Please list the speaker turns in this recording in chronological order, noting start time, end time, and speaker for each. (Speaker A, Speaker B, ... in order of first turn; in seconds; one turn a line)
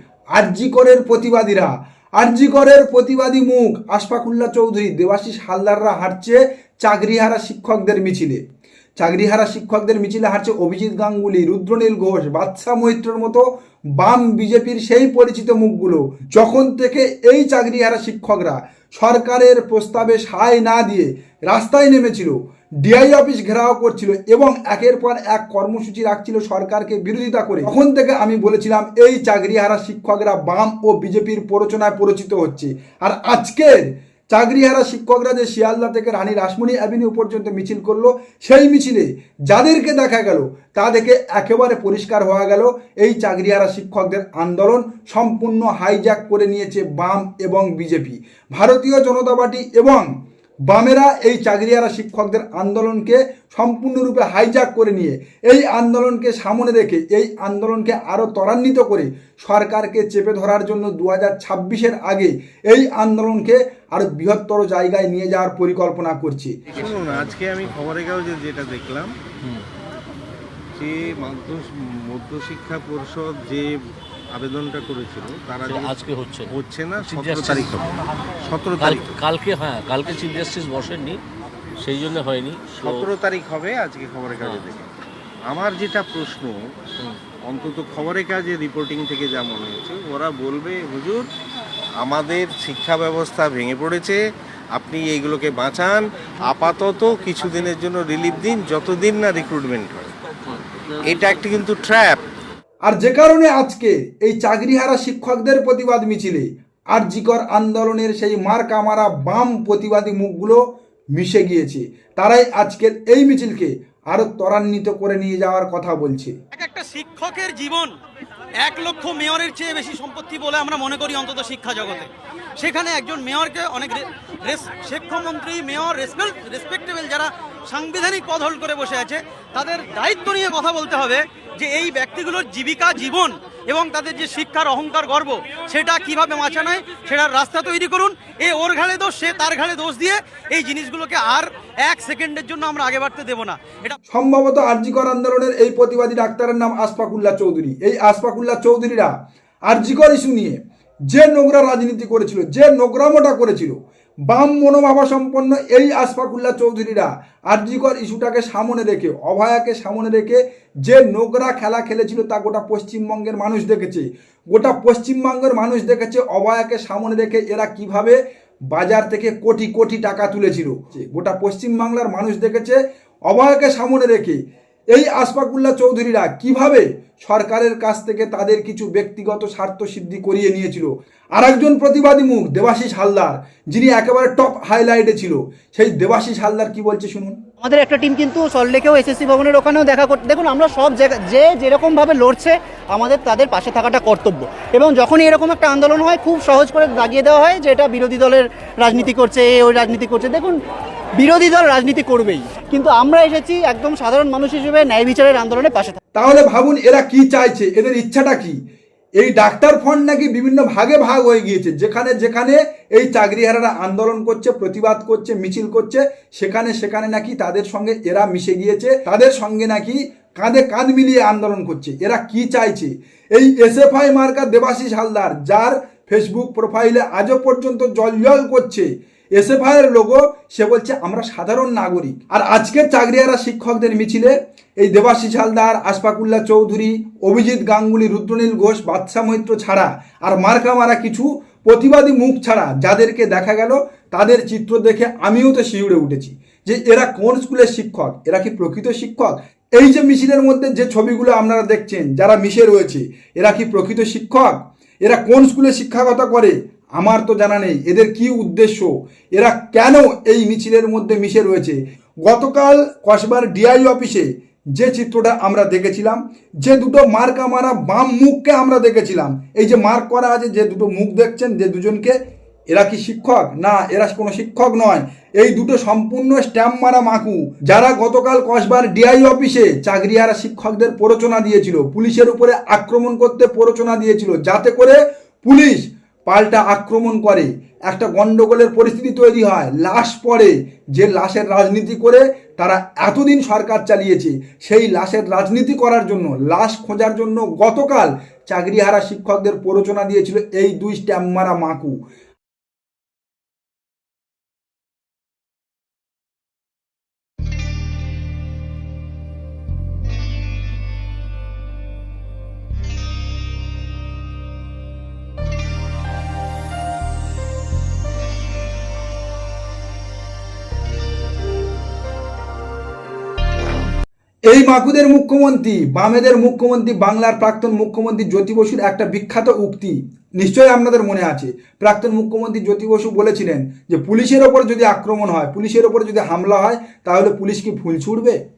Speaker A: 0.3-8.4
Speaker A: 9.0-50.1
Speaker A: 50.7-66.6
Speaker B: 66.7-69.1
Speaker C: 67.1-67.3
Speaker B: 70.8-73.7
Speaker B: 74.3-76.0
Speaker C: 75.6-78.2
Speaker B: 76.5-77.9
Speaker B: 78.4-79.2
Speaker C: 78.8-81.2
Speaker C: 81.8-83.1
Speaker B: 82.7-84.9
Speaker C: 84.4-84.7
Speaker B: 85.5-86.5
Speaker B: 87.5-91.3
Speaker B: 92.0-94.2
Speaker B: 94.7-100.2
Speaker B: 101.0-102.2
Speaker A: 102.8-110.6
Speaker A: 111.1-116.3
Speaker D: 116.5-117.9
Speaker D: 118.6-143.9
Speaker A: 144.1-149.1
Speaker A: 149.7-153.8
Speaker A: 154.3-168.2
Speaker A: 168.7-174.4
Speaker A: 174.9-187.3
Speaker E: 187.6-200.6
Speaker E: 201.2-206.0
Speaker A: 206.1-208.6
Speaker A: 209.2-272.2
Speaker A: 272.7-302.0
Speaker A: 324.5-338.4